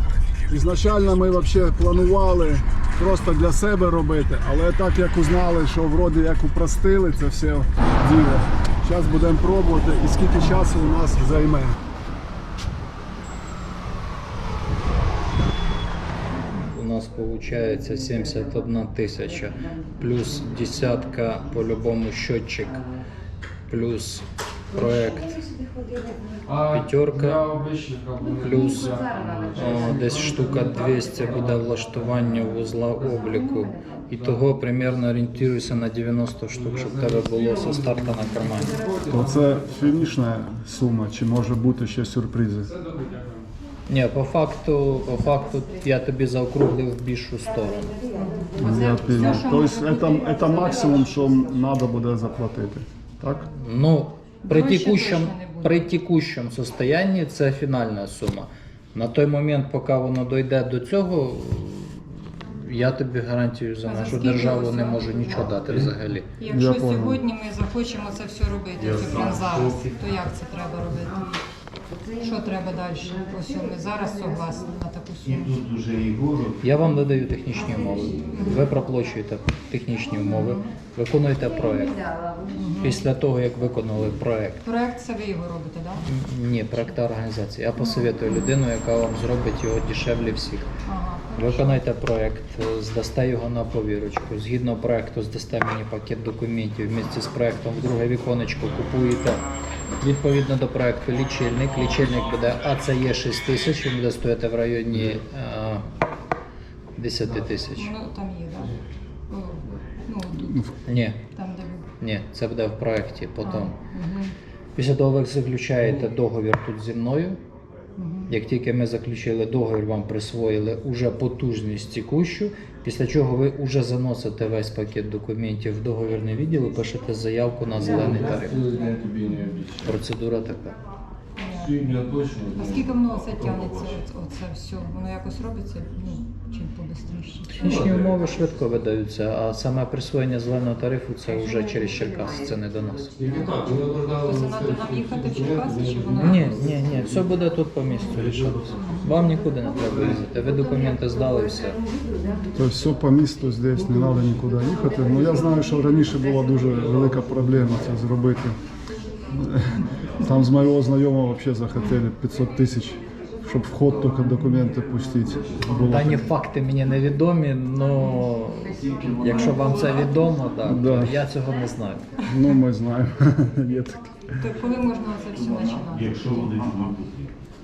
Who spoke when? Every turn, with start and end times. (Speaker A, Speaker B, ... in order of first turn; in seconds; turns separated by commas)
Speaker A: 0.5-11.8, Speaker B: 16.5-22.8, Speaker B: 23.7-25.4, Speaker B: 26.6-27.6, Speaker C: 27.4-29.4, Speaker B: 28.4-38.8, Speaker C: 38.8-39.1, Speaker A: 39.1-42.7, Speaker B: 43.9-47.9, Speaker D: 48.1-51.2, Speaker A: 48.6-53.3, Speaker B: 53.2-66.3, Speaker D: 54.5-55.9, Speaker D: 63.9-65.2, Speaker D: 66.4-71.4, Speaker A: 66.5-67.2, Speaker D: 72.2-75.6, Speaker C: 75.9-76.5, Speaker B: 76.6-82.0, Speaker D: 78.3-78.6, Speaker D: 80.3-80.7, Speaker D: 82.5-83.0, Speaker B: 82.8-84.6, Speaker D: 84.6-86.1, Speaker B: 86.0-90.7, Speaker D: 87.8-88.5, Speaker D: 90.9-91.8, Speaker B: 91.4-99.5, Speaker B: 100.0-105.9, Speaker B: 107.0-107.9, Speaker D: 107.8-108.8, Speaker D: 109.3-110.6, Speaker A: 110.4-110.7, Speaker B: 110.8-111.3, Speaker D: 111.3-111.9, Speaker B: 112.0-113.8, Speaker D: 113.4-114.3, Speaker B: 114.8-117.4, Speaker D: 118.0-118.3, Speaker B: 118.3-129.0, Speaker D: 128.8-129.6, Speaker B: 129.8-130.8, Speaker D: 131.4-131.9, Speaker D: 132.5-137.8, Speaker B: 137.5-143.2, Speaker C: 143.3-144.0, Speaker D: 144.1-146.8, Speaker B: 146.1-151.8, Speaker D: 148.8-149.1, Speaker D: 152.2-152.5, Speaker A: 152.5-158.6, Speaker A: 159.3-166.3, Speaker B: 165.9-172.1, Speaker A: 170.7-171.2, Speaker A: 172.2-174.3, Speaker D: 174.3-176.6, Speaker C: 176.0-177.2